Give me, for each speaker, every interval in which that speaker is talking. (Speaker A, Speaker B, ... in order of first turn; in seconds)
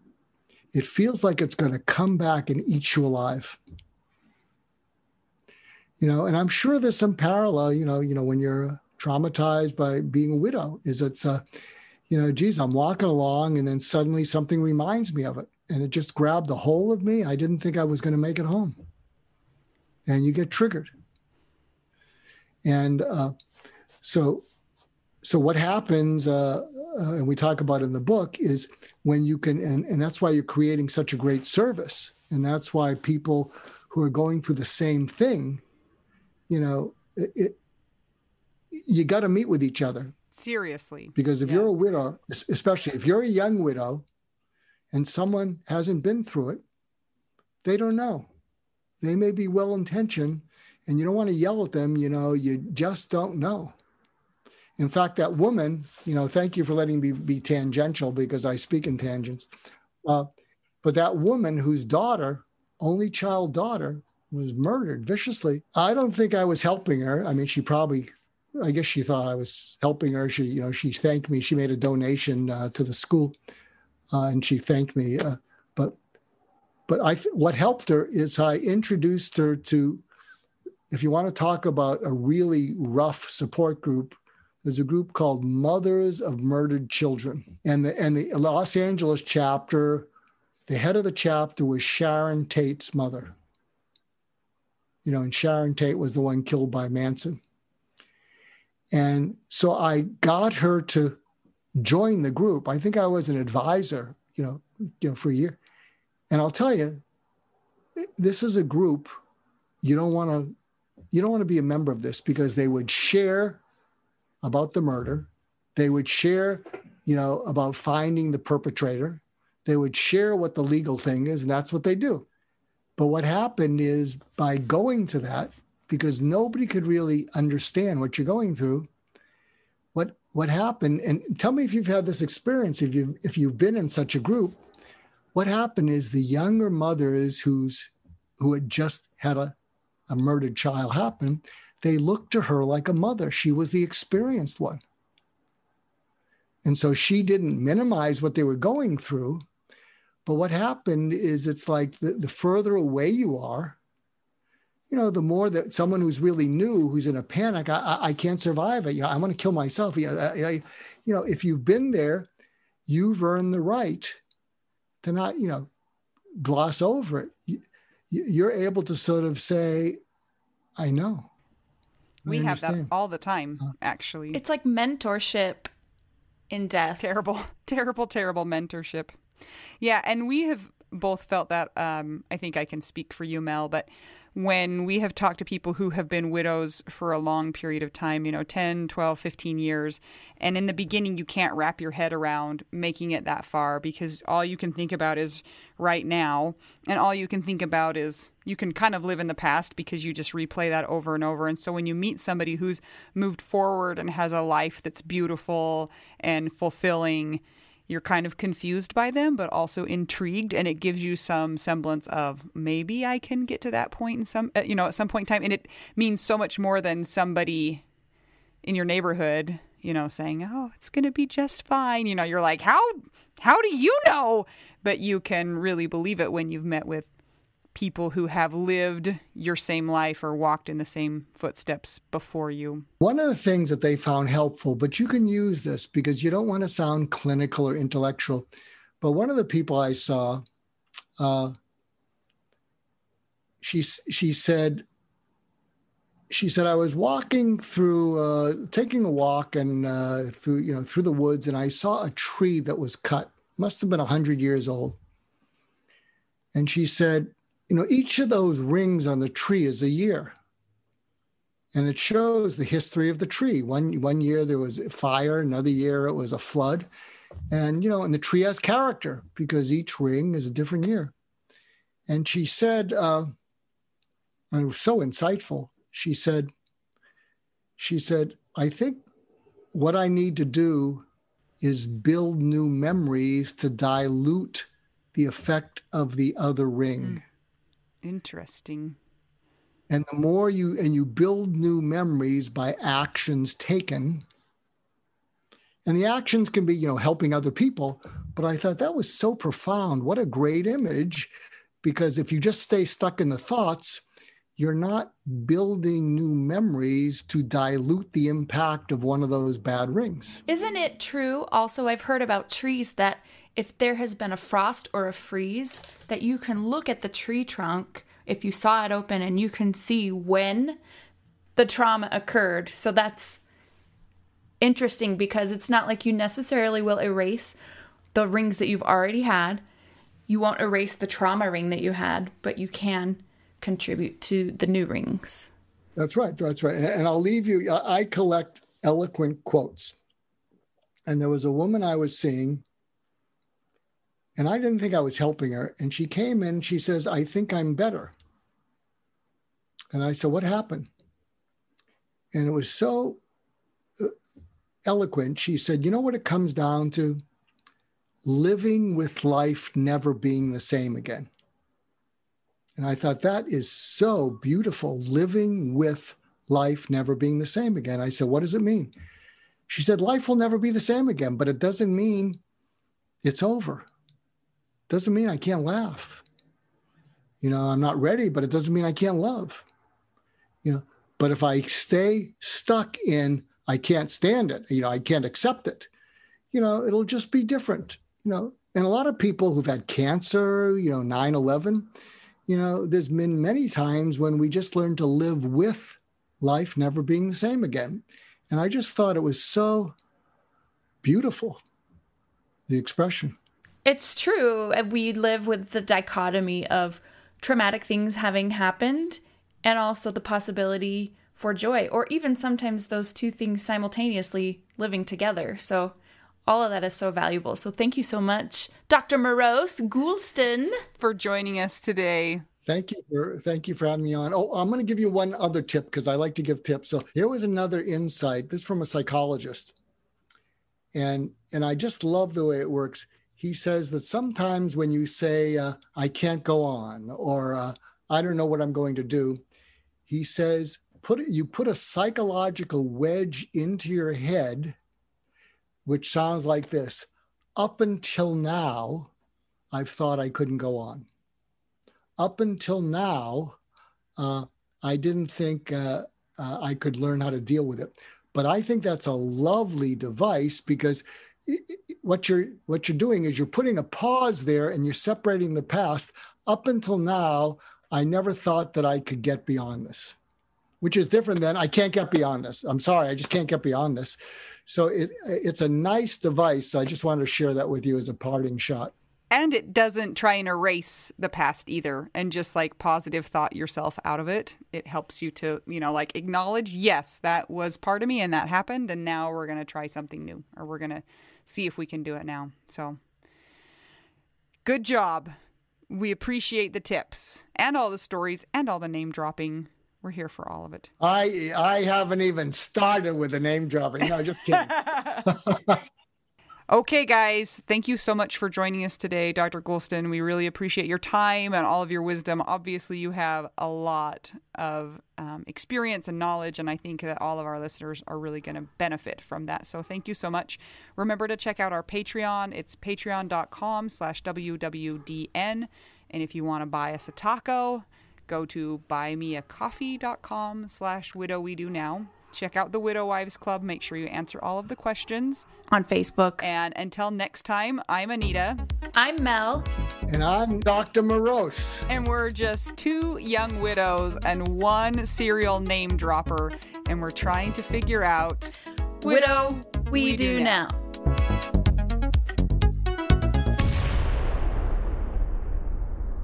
Speaker A: 0.7-3.6, 6.0-11.4, 12.1-18.8, 20.1-20.9, 22.6-23.3, 24.0-24.4, 25.2-35.6, 36.5-37.6, 38.7-40.1, 41.1-44.0, 44.9-46.6, 47.6-48.3, 49.0-53.7, 54.8-59.5, 60.8-73.3, 74.1-76.0, 76.9-80.0, 80.9-90.1, 90.7-93.3, 95.0-97.4, 98.9-101.2, 101.8-105.6, 106.3-107.0, 108.0-109.2, 109.8-110.5, 111.1-113.6, 114.4-122.3, 123.0-128.9, 129.9-134.6, 135.3-139.6, 140.1-144.8, 146.6-149.5, 150.2-153.8, 154.9-162.3, 162.9-164.2, 165.0-165.7, 166.4-170.0, 170.8-171.3, 172.3-172.9, 233.0-238.5, 239.0-240.4, 241.2-241.6, 243.6-244.8, 246.3-255.0, 256.5-260.4, 261.7-266.9, 267.5-271.1, 272.1-273.3, 274.5-276.5, 277.8-279.0, 279.7-281.1, 281.6-287.2, 289.9-294.2, 295.9-301.3, 301.8-304.0, 304.6-310.4, 336.0-340.0, 341.1-342.6, 344.4-348.1, 349.9-350.9, 352.3-353.2, 354.9-357.2, 358.2-361.3, 362.8-368.9, 369.7-372.4, 373.2-373.9, 374.9-376.2, 377.4-379.6, 380.6-385.9, 386.5-391.9, 392.5-400.0, 401.0-401.6, 402.7-403.4, 422.6-429.7, 430.9-439.4, 440.1-444.8, 445.9-449.1, 449.7-451.1, 452.2-453.6, 454.2-470.2, 470.8-478.9, 501.0-505.8, 540.1-541.9
Speaker B: 40.3-41.7, 172.2-174.4, 177.0-179.2, 179.8-217.8, 218.6-227.1, 227.8-232.8, 288.0-289.0, 421.0-422.4, 479.3-493.0, 494.6-495.3, 495.9-500.9, 504.7-505.2, 506.7-535.5, 536.4-538.6, 541.9-550.6
Speaker C: 174.3-175.7, 176.5-177.1, 310.5-320.8, 321.6-323.4, 324.6-327.6, 328.1-329.6, 330.3-335.5, 403.9-420.8, 535.7-536.5, 539.0-539.7, 549.0-550.8